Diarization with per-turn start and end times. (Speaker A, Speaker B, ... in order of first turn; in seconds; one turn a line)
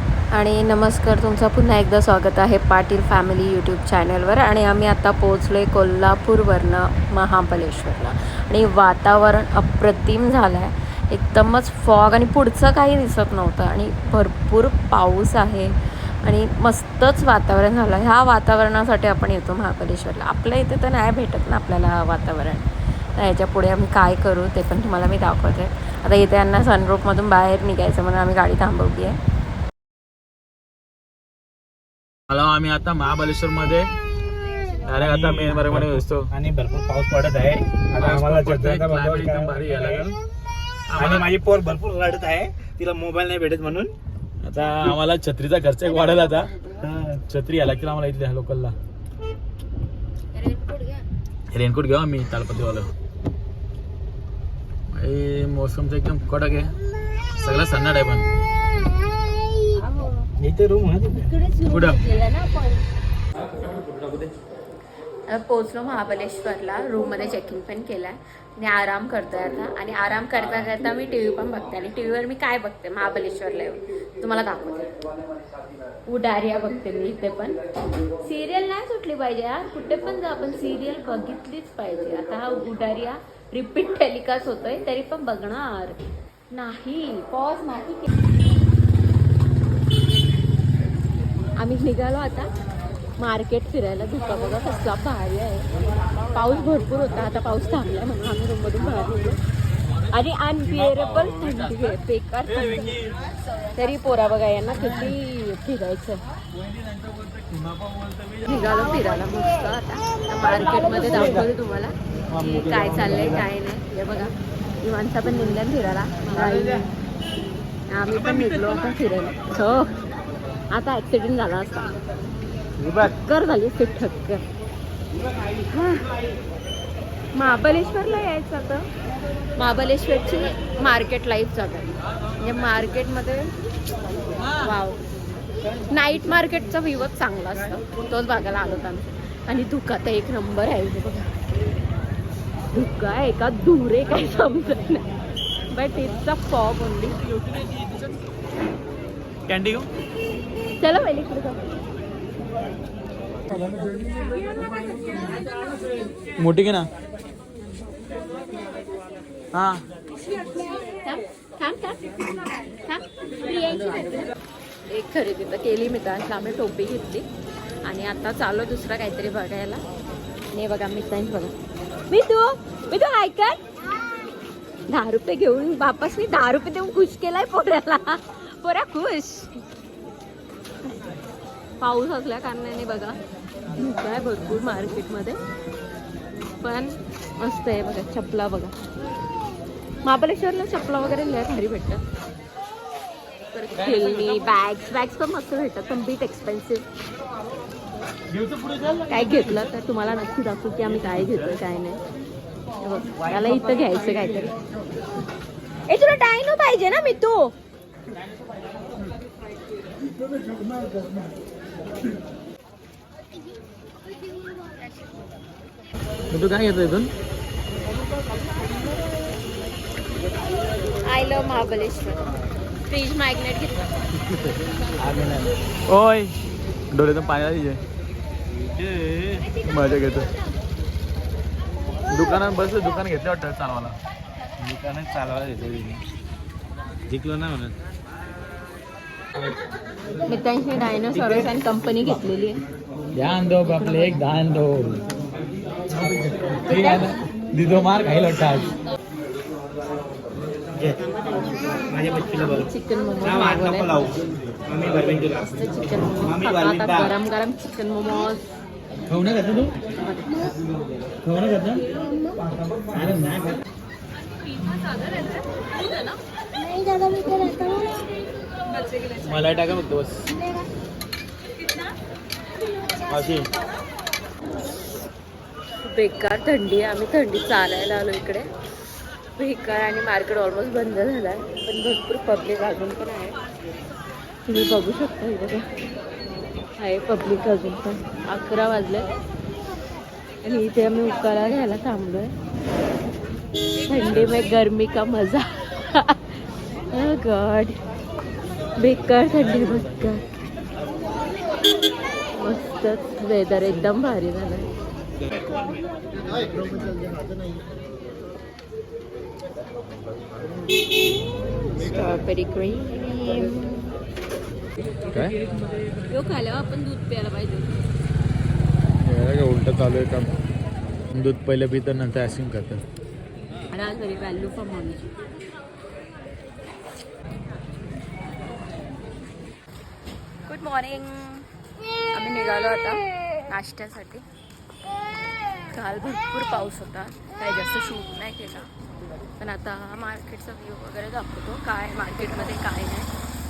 Speaker A: 0.3-29.2
Speaker B: 32.3-33.9
Speaker B: 34.8-36.3
Speaker C: 35.0-40.1
Speaker B: 38.0-40.1
Speaker B: 40.9-41.2
Speaker C: 40.9-43.9
Speaker B: 44.4-46.5
Speaker A: 45.8-46.9
Speaker C: 46.8-47.2
Speaker B: 47.3-48.7
Speaker A: 50.3-51.0
Speaker B: 51.5-52.9
Speaker B: 54.9-56.7
Speaker B: 57.4-58.2
Speaker A: 59.7-60.2
Speaker C: 60.4-61.3
Speaker A: 61.2-62.8
Speaker B: 61.7-62.0
Speaker A: 65.3-74.9
Speaker A: 76.0-77.6
Speaker A: 78.2-86.0
Speaker A: 86.5-88.1
Speaker A: 91.6-92.5
Speaker A: 93.2-95.7
Speaker A: 96.3-99.4
Speaker A: 100.1-102.9
Speaker B: 100.7-101.8
Speaker B: 102.5-103.2
Speaker A: 103.7-106.2
Speaker B: 106.6-108.5
Speaker A: 108.5-116.9
Speaker C: 112.6-113.2
Speaker A: 117.9-119.9
Speaker A: 120.7-122.0
Speaker C: 122.8-123.1
Speaker A: 123.0-124.4
Speaker A: 125.7-126.0
Speaker A: 127.3-128.8
Speaker A: 129.6-133.5
Speaker A: 134.6-135.0
Speaker A: 135.9-141.3
Speaker A: 142.7-145.1
Speaker A: 145.7-147.2
Speaker B: 149.5-149.9
Speaker A: 150.8-151.6
Speaker B: 156.4-156.9
Speaker B: 159.5-159.8
Speaker A: 160.8-164.3
Speaker A: 164.9-167.2
Speaker A: 167.8-169.8
Speaker A: 170.5-171.5
Speaker A: 172.1-173.6
Speaker A: 174.9-179.6
Speaker A: 181.8-183.2
Speaker A: 183.8-185.4
Speaker A: 186.6-188.7
Speaker A: 190.0-192.0
Speaker A: 193.5-196.8
Speaker A: 199.1-202.0
Speaker A: 202.8-204.5
Speaker A: 205.9-207.5
Speaker B: 216.3-217.1
Speaker A: 221.0-222.3
Speaker A: 222.8-223.9
Speaker B: 224.2-226.3
Speaker B: 226.9-227.8
Speaker C: 228.5-229.6
Speaker B: 229.6-230.3
Speaker B: 232.1-234.0
Speaker C: 234.6-236.0
Speaker C: 237.1-237.7
Speaker A: 240.3-242.6
Speaker C: 241.1-241.5
Speaker B: 243.1-245.0
Speaker C: 246.0-246.2
Speaker B: 246.5-248.7
Speaker A: 246.7-247.0
Speaker C: 250.7-251.1
Speaker A: 251.1-251.7
Speaker C: 251.6-255.6
Speaker A: 252.3-254.1
Speaker A: 255.3-258.5
Speaker C: 256.2-257.1
Speaker B: 259.1-259.8
Speaker A: 260.0-260.5
Speaker B: 261.2-261.9
Speaker C: 262.4-263.3
Speaker B: 262.9-263.6
Speaker A: 264.5-266.1
Speaker A: 267.1-267.9
Speaker B: 269.2-270.3
Speaker B: 273.1-273.5
Speaker A: 275.8-278.5
Speaker A: 279.4-283.4
Speaker A: 284.4-285.6
Speaker A: 286.8-289.1
Speaker A: 290.4-292.3
Speaker A: 293.8-296.4
Speaker A: 296.9-297.8
Speaker A: 298.8-300.2
Speaker A: 302.3-304.7
Speaker A: 311.7-313.8
Speaker B: 315.1-315.3
Speaker A: 316.1-317.7
Speaker B: 319.0-320.3
Speaker B: 321.1-322.8
Speaker A: 323.7-325.1
Speaker A: 330.5-331.4
Speaker A: 332.1-334.2
Speaker A: 335.7-338.7
Speaker A: 339.4-343.1